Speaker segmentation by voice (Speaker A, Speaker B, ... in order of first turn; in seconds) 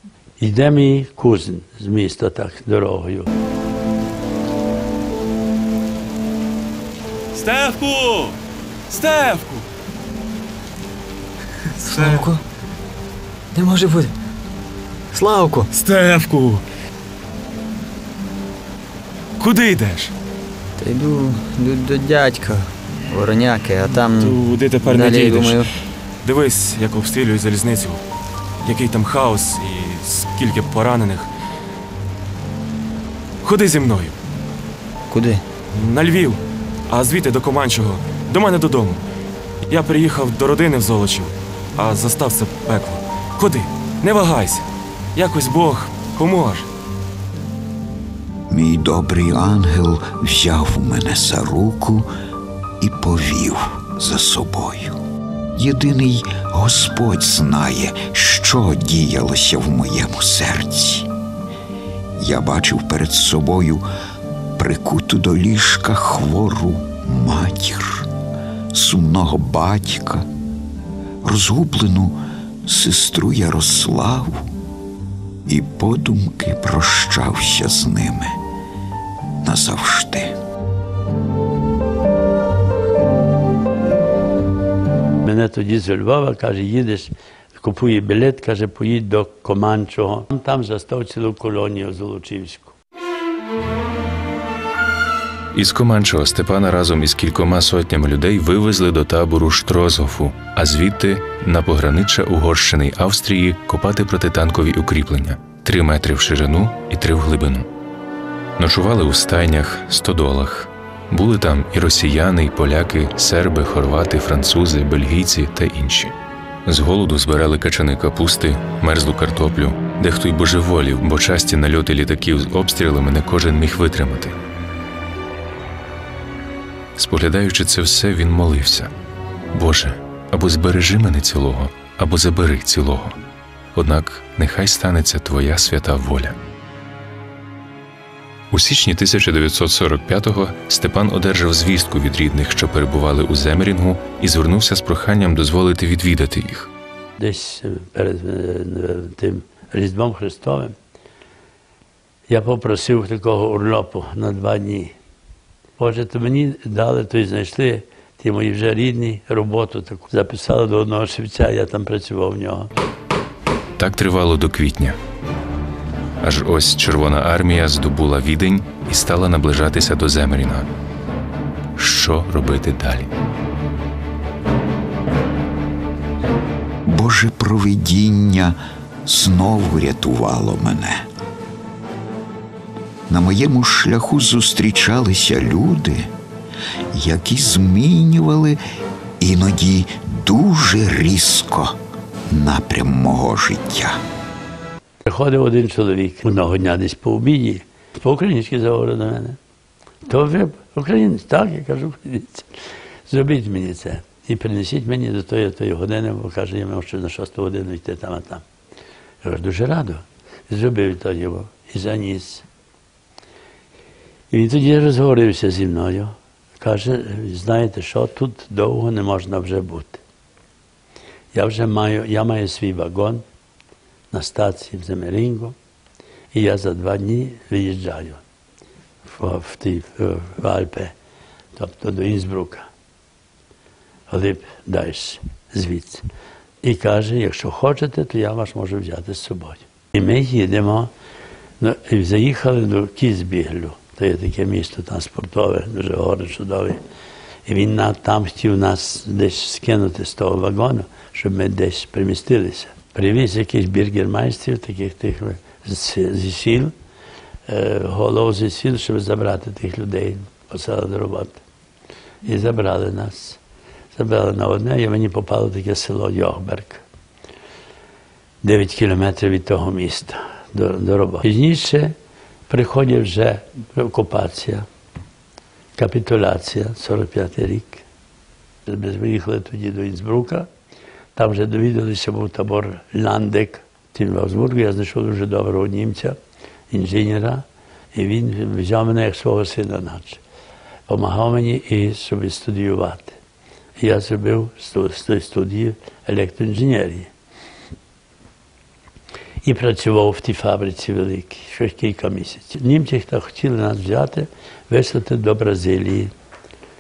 Speaker A: 0.4-3.3, 85.3-92.7, 147.2-150.8, 152.3-154.9, 155.8-162.7, 195.0-199.4, 200.1-202.4, 203.1-208.4, 209.2-212.4, 214.3-220.0, 221.3-223.2, 224.1-225.6, 226.3-228.2, 229.1-230.9, 231.6-232.7, 234.1-236.0, 236.6-240.9, 241.6-246.8, 247.5-256.7, 257.5-261.4, 262.2-263.4, 263.9-266.8, 268.4-271.9, 272.5-274.6, 275.8-277.8, 278.7-280.5, 281.2-286.2, 286.7-290.2, 290.9-293.1, 293.8-297.1, 299.4-306.1
Speaker B: 7.3-8.3, 8.9-9.7, 11.8-12.3, 15.7-16.6, 19.4-20.1, 24.1-25.6, 26.2-28.0, 28.6-31.3, 33.4-34.1, 35.7-39.0, 39.7-44.6, 45.1-46.7
Speaker C: 11.8-12.4, 13.5-14.1, 15.1-15.7, 20.8-25.7, 35.1-35.4
Speaker D: 48.5-52.1, 52.8-55.0, 55.5-61.1, 62.2-63.9, 64.6-68.1, 68.7-70.3, 71.2-74.5, 75.5-78.4, 79.4-80.4, 176.9-181.1, 183.1-186.1, 186.9-188.6, 189.2-191.8, 192.3-194.0
Speaker E: 95.5-107.7, 108.6-116.1, 116.7-124.4, 127.0-128.9, 129.5-133.2, 133.8-136.4, 138.5-146.7, 163.8-165.0, 166.2-170.7, 171.8-173.1